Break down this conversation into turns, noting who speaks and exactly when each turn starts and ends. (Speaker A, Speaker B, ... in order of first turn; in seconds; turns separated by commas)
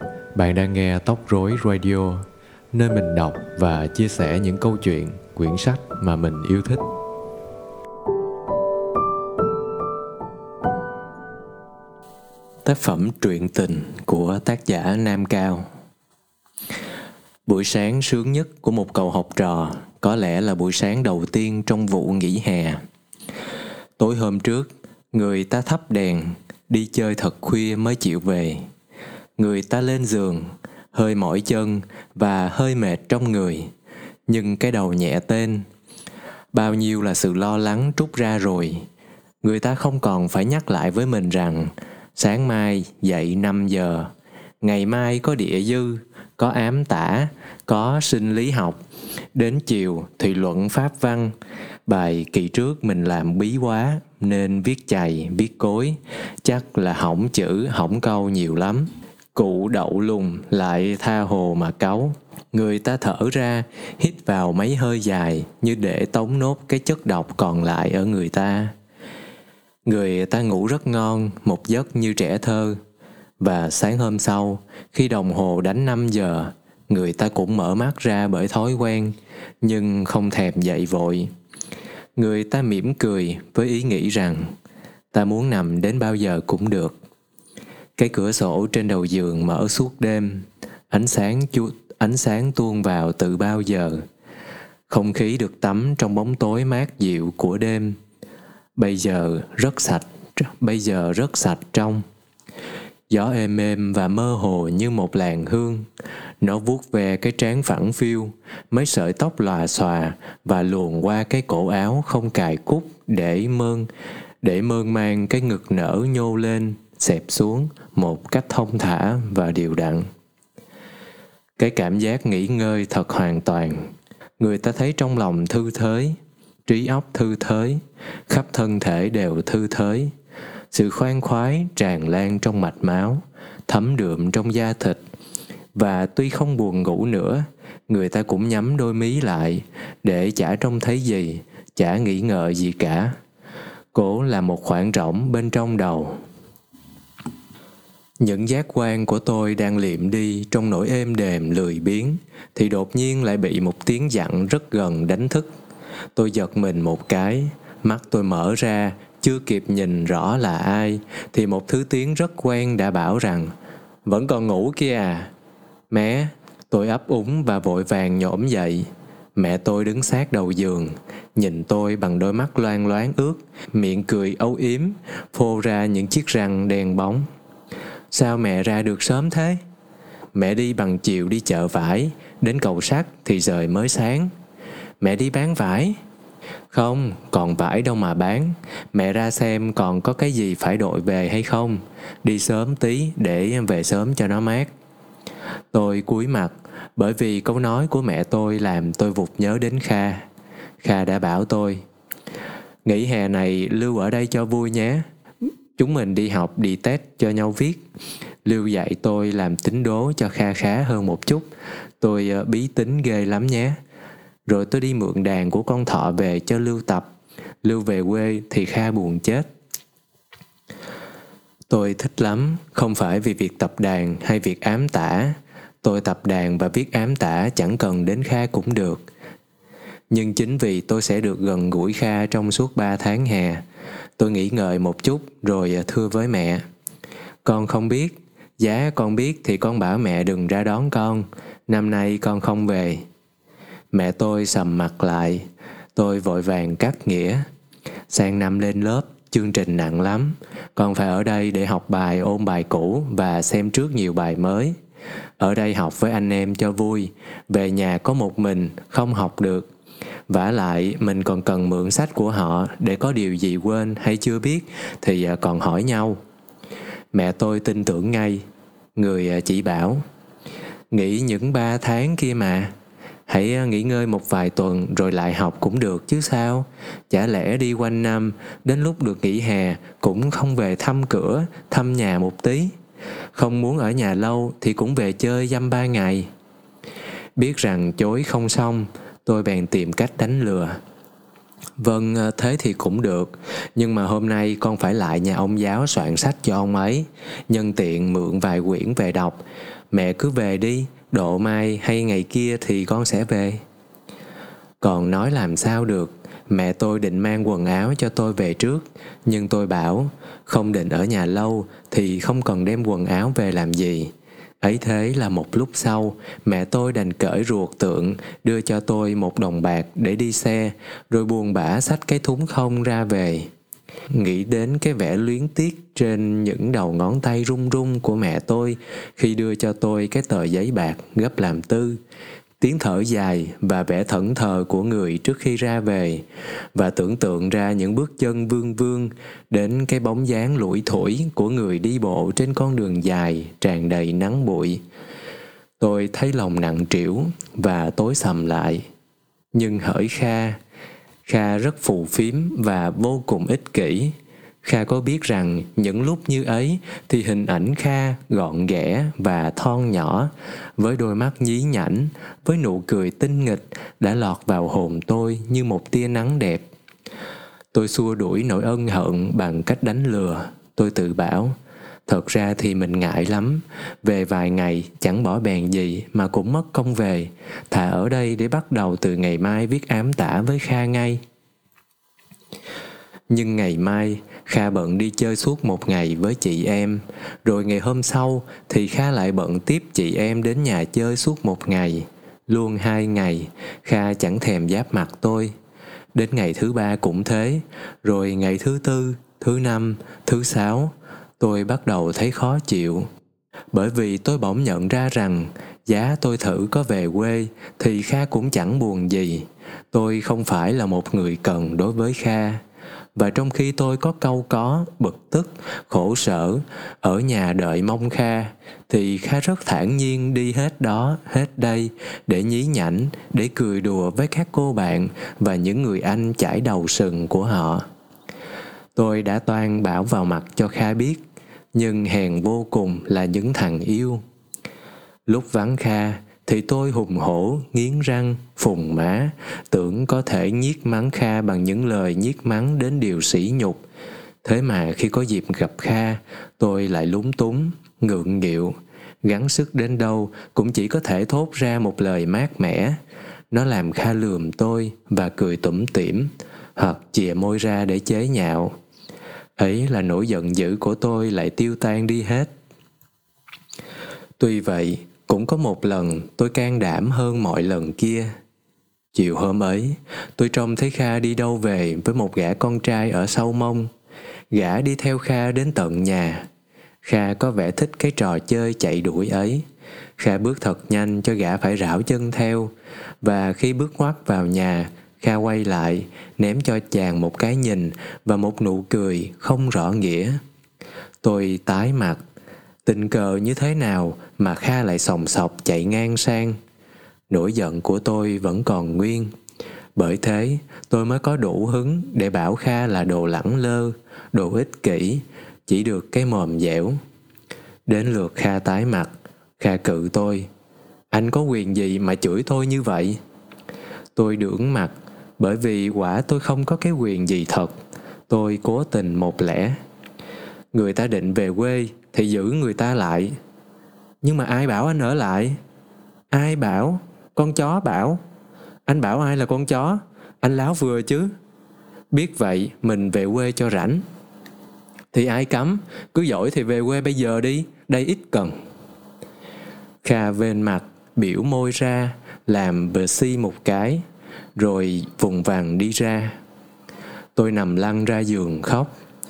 Speaker A: 0.3-6.8, Speaker A: 12.6-15.7, Speaker A: 17.4-22.8, Speaker A: 24.0-28.6, Speaker A: 29.4-33.7, Speaker A: 34.3-35.6, Speaker A: 36.5-38.9, Speaker A: 39.4-44.1, Speaker A: 44.6-48.8, Speaker A: 49.3-51.3, Speaker A: 51.9-68.7, Speaker A: 69.8-72.8, Speaker A: 73.4-81.3, Speaker A: 82.2-84.5, Speaker A: 85.1-87.0, Speaker A: 88.0-94.0, Speaker A: 94.9-98.0, Speaker A: 98.8-102.0, Speaker A: 103.1-105.8, Speaker A: 106.4-113.9, Speaker A: 114.4-120.0, Speaker A: 121.6-123.8, Speaker A: 124.4-130.1, Speaker A: 130.7-135.0, Speaker A: 135.7-143.1, Speaker A: 143.9-146.2, Speaker A: 148.2-155.5, Speaker A: 156.2-163.5, Speaker A: 164.1-165.3, Speaker A: 165.9-177.2, Speaker A: 178.1-179.6, Speaker A: 180.3-184.3, Speaker A: 185.0-185.9, Speaker A: 186.7-194.7, Speaker A: 195.7-200.2, Speaker A: 200.8-201.8, Speaker A: 202.8-205.0, Speaker A: 205.8-207.8, Speaker A: 208.4-211.4, Speaker A: 212.0-213.8, Speaker A: 214.4-217.1, Speaker A: 217.6-219.4, Speaker A: 221.7-229.0, Speaker A: 230.1-233.6, Speaker A: 234.2-236.6, Speaker A: 237.4-243.0, Speaker A: 243.9-245.4, Speaker A: 245.9-247.4, Speaker A: 248.1-254.7, Speaker A: 255.4-259.7, Speaker A: 260.3-266.2, Speaker A: 267.1-268.4, Speaker A: 268.9-270.0, Speaker A: 270.9-272.7, Speaker A: 273.3-282.7, Speaker A: 283.3-286.3, Speaker A: 287.4-290.8, Speaker A: 291.8-303.6, Speaker A: 304.8-323.5, Speaker A: 324.1-332.0, Speaker A: 332.6-336.2, Speaker A: 336.7-344.8, Speaker A: 345.8-348.8, Speaker A: 349.5-350.6, Speaker A: 351.2-366.6, Speaker A: 367.7-371.5, Speaker A: 372.1-381.2, Speaker A: 383.3-395.5, Speaker A: 396.1-403.1, Speaker A: 403.7-412.6, Speaker A: 413.1-427.8, Speaker A: 428.9-431.2, Speaker A: 431.7-434.2, Speaker A: 435.3-443.8, Speaker A: 444.4-453.0, Speaker A: 453.5-458.7, Speaker A: 459.6-462.5, Speaker A: 464.4-468.3, Speaker A: 469.1-473.9, Speaker A: 474.5-476.4, Speaker A: 477.0-479.6, Speaker A: 480.2-482.7, Speaker A: 483.2-490.4, Speaker A: 491.2-492.2, Speaker A: 492.8-496.6, Speaker A: 497.3-499.3, Speaker A: 499.9-506.9, Speaker A: 507.9-510.5, Speaker A: 511.1-513.2, Speaker A: 514.1-517.7, Speaker A: 518.3-519.8, Speaker A: 520.7-523.3, Speaker A: 524.2-525.5, Speaker A: 526.3-528.2, Speaker A: 528.9-531.3, Speaker A: 532.1-534.0, Speaker A: 535.1-538.5, Speaker A: 540.0-544.0, Speaker A: 544.5-546.4, Speaker A: 547.4-548.9